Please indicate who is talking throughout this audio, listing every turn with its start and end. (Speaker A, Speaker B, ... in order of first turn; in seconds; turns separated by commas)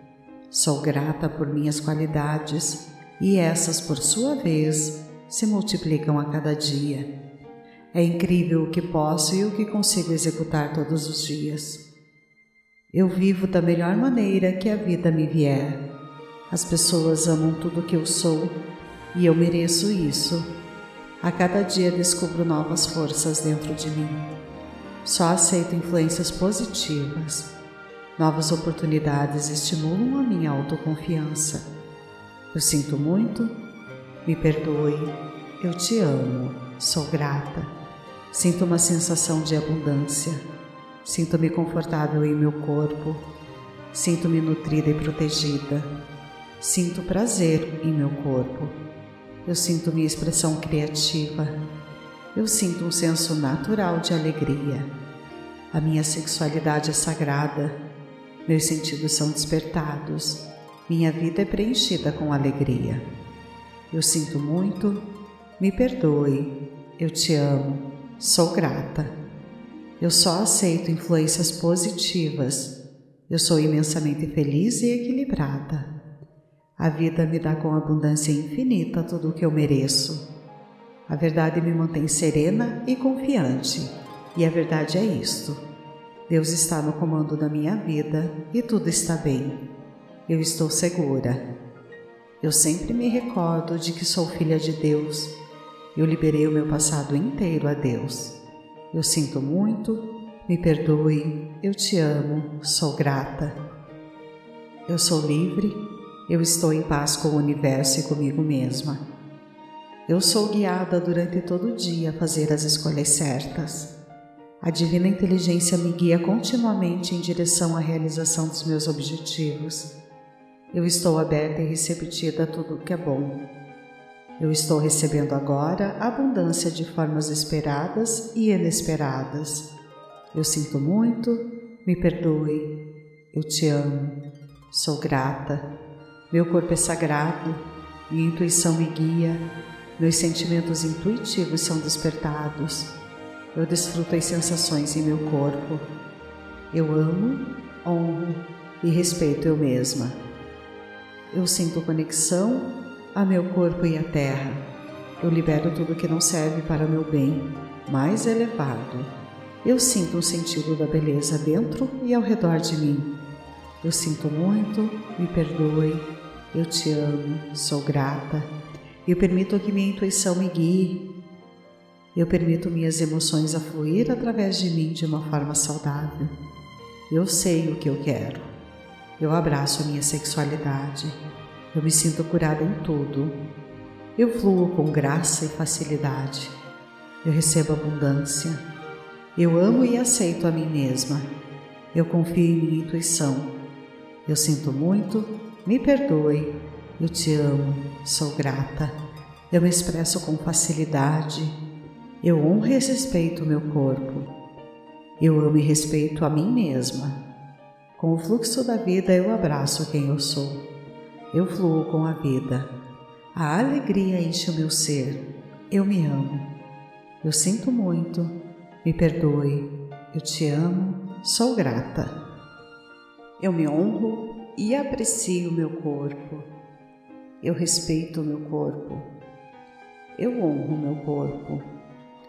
Speaker A: 0.5-7.1, Speaker A: 7.9-11.8, Speaker A: 12.9-15.8, Speaker A: 16.5-18.6, Speaker A: 19.1-20.5, Speaker A: 21.2-24.2, Speaker A: 25.0-27.5, Speaker A: 28.2-31.6, Speaker A: 32.5-33.5, Speaker A: 34.2-37.7, Speaker A: 38.3-40.4, Speaker A: 41.0-43.2, Speaker A: 43.9-45.9, Speaker A: 46.6-48.8, Speaker A: 49.5-51.5, Speaker A: 52.3-54.9, Speaker A: 55.7-57.8, Speaker A: 58.5-63.0, Speaker A: 63.9-65.0, Speaker A: 65.6-69.1, Speaker A: 70.0-72.7, Speaker A: 73.3-75.9, Speaker A: 76.8-80.2, Speaker A: 81.1-85.6, Speaker A: 86.3-89.6, Speaker A: 90.3-91.4, Speaker A: 92.4-95.3, Speaker A: 95.9-98.3, Speaker A: 98.9-103.6, Speaker A: 104.9-109.0, Speaker A: 110.1-113.9, Speaker A: 114.6-119.9, Speaker A: 120.7-123.4, Speaker A: 124.4-129.7, Speaker A: 130.3-132.7, Speaker A: 133.3-134.2, Speaker A: 134.7-135.7, Speaker A: 136.3-139.4, Speaker A: 140.0-142.9, Speaker A: 143.5-145.9, Speaker A: 146.7-150.2, Speaker A: 151.3-154.6, Speaker A: 155.2-159.1, Speaker A: 159.6-163.1, Speaker A: 163.8-168.5, Speaker A: 169.1-171.0, Speaker A: 172.1-176.3, Speaker A: 177.1-178.5, Speaker A: 179.2-181.2, Speaker A: 181.7-183.4, Speaker A: 184.2-186.5, Speaker A: 187.2-188.6, Speaker A: 189.3-191.3, Speaker A: 191.9-193.5, Speaker A: 194.2-198.9, Speaker A: 199.5-201.6, Speaker A: 202.2-204.3, Speaker A: 205.2-207.2, Speaker A: 208.0-210.6, Speaker A: 211.3-212.7, Speaker A: 213.3-216.5, Speaker A: 217.2-222.1, Speaker A: 223.4-226.5, Speaker A: 227.4-229.1, Speaker A: 230.2-231.6